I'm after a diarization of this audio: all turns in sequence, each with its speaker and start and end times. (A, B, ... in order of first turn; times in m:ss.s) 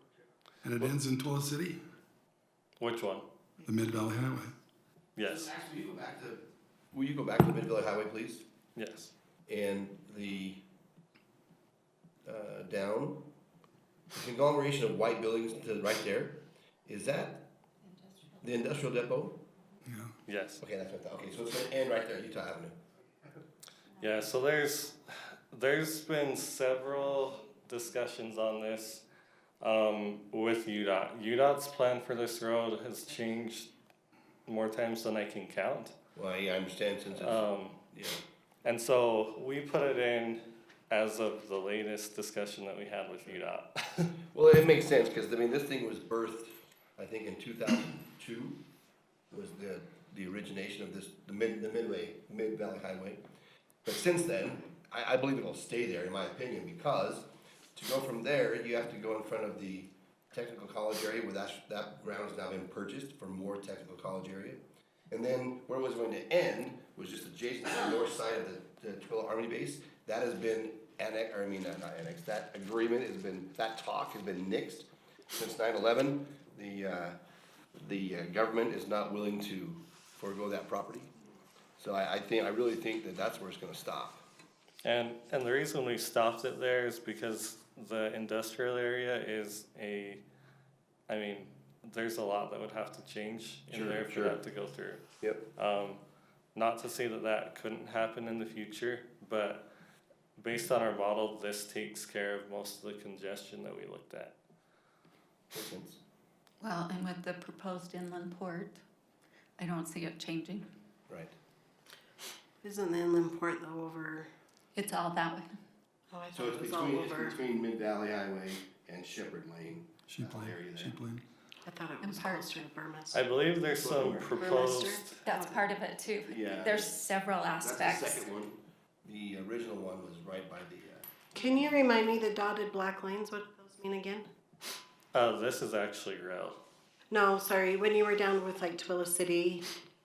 0:00.6-0:01.8 A
0:02.8-0:03.2 B
0:03.6-0:04.5 A
0:05.2-0:05.5 B
0:05.2-0:08.4 C
0:08.8-0:09.1 B
0:09.5-0:10.6 C
0:12.2-0:13.3 C
0:14.1-0:17.4 C
0:17.9-0:18.4 D
0:18.4-0:19.4 C
0:19.8-0:20.1 A
0:20.3-0:20.6 B
0:20.6-0:22.8 C
0:24.0-0:25.0 B
0:25.5-0:29.0 B
0:29.6-0:33.7 B
0:34.5-0:35.9 B
0:36.2-0:38.2 C
0:37.1-0:37.8 B
0:38.6-0:44.2 B
0:44.3-0:48.6 C
0:49.3-0:53.2 C
0:53.8-1:17.2 C
1:17.7-1:21.1 C
1:21.8-1:24.2 C
1:24.8-1:30.2 B
1:31.1-1:35.0 B
1:33.7-1:34.4 C
1:35.2-1:35.4 C
1:35.6-1:36.0 B
1:36.5-1:39.7 B
1:40.4-1:44.3 B
1:45.5-1:46.0 C
1:46.6-1:48.8 D
1:49.6-1:50.7 D
1:51.1-1:51.3 C
1:52.6-1:54.3 E
1:54.7-1:55.6 D
1:56.1-1:57.4 E
1:56.3-2:01.0 C
2:00.1-2:01.2 A
2:01.6-2:03.2 E
2:02.0-2:02.6 D
2:03.1-2:05.2 B
2:03.8-2:04.3 C
2:04.3-2:05.7 E
2:05.2-2:08.3 D
2:06.2-2:07.0 C
2:07.6-2:11.1 C
2:11.3-2:14.2 E
2:15.1-2:16.6 B
2:17.1-2:19.7 E